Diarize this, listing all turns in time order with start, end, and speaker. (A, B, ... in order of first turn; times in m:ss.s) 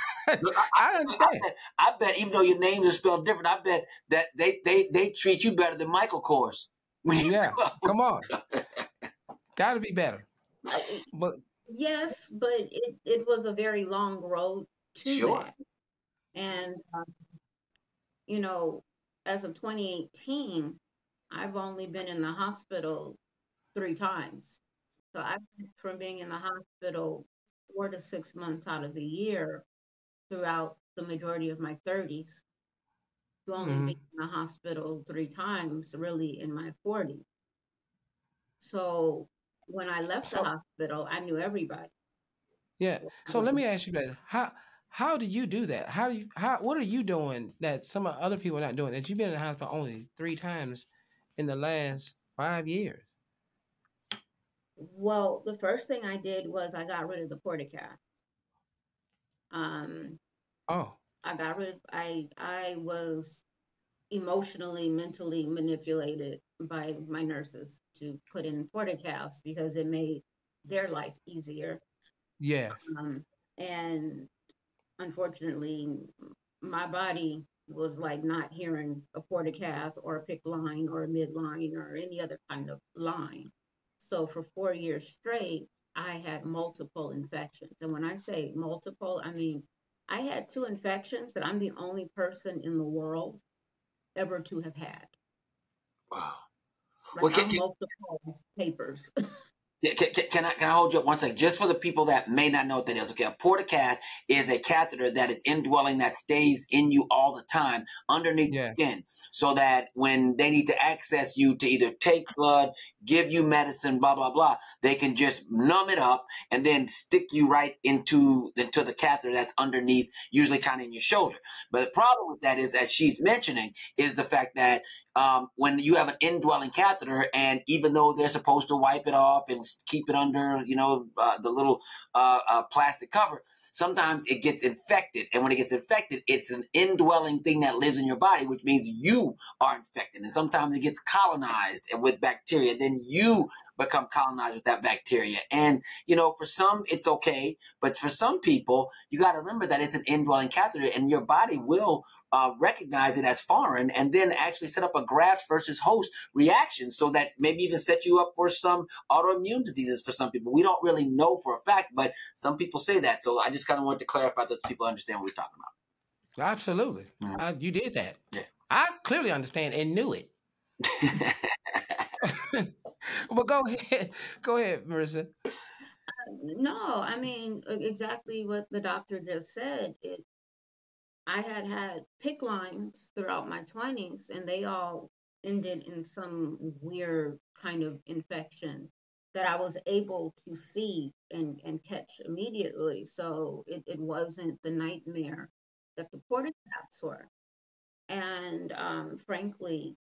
0:00.2-0:01.4 A
0:00.4-0:07.9 B
0:07.2-0:08.2 A
0:09.6-0:10.3 A
0:10.7-0:11.0 C
0:11.7-0:15.5 C
0:15.0-0:15.5 B
0:16.3-0:17.1 C
0:18.3-0:23.2 C
0:23.7-0:24.6 C
0:25.1-0:29.6 C
0:30.3-0:32.4 C
0:33.4-0:37.2 C
0:33.6-0:34.0 A
0:38.6-0:41.9 C
0:40.2-0:40.5 A
0:42.8-0:53.0 A
0:43.0-0:43.6 C
0:54.8-0:58.0 C
0:59.5-1:00.2 C
1:00.7-1:01.0 A
1:01.2-1:03.4 C
1:04.1-1:11.8 C
1:12.4-1:12.8 A
1:12.8-1:14.3 C
1:15.0-1:33.4 C
1:34.2-1:35.1 C
1:36.1-1:36.4 B
1:37.1-1:39.1 C
1:37.2-1:37.6 B
1:39.8-2:45.7 B
1:48.5-1:48.8 A
2:46.4-2:48.2 A
2:48.7-2:50.3 A
2:51.0-2:51.4 B
2:52.3-2:52.7 A
2:53.3-2:55.3 A
2:56.1-3:00.2 C
3:01.2-3:17.3 C
3:18.1-3:20.0 C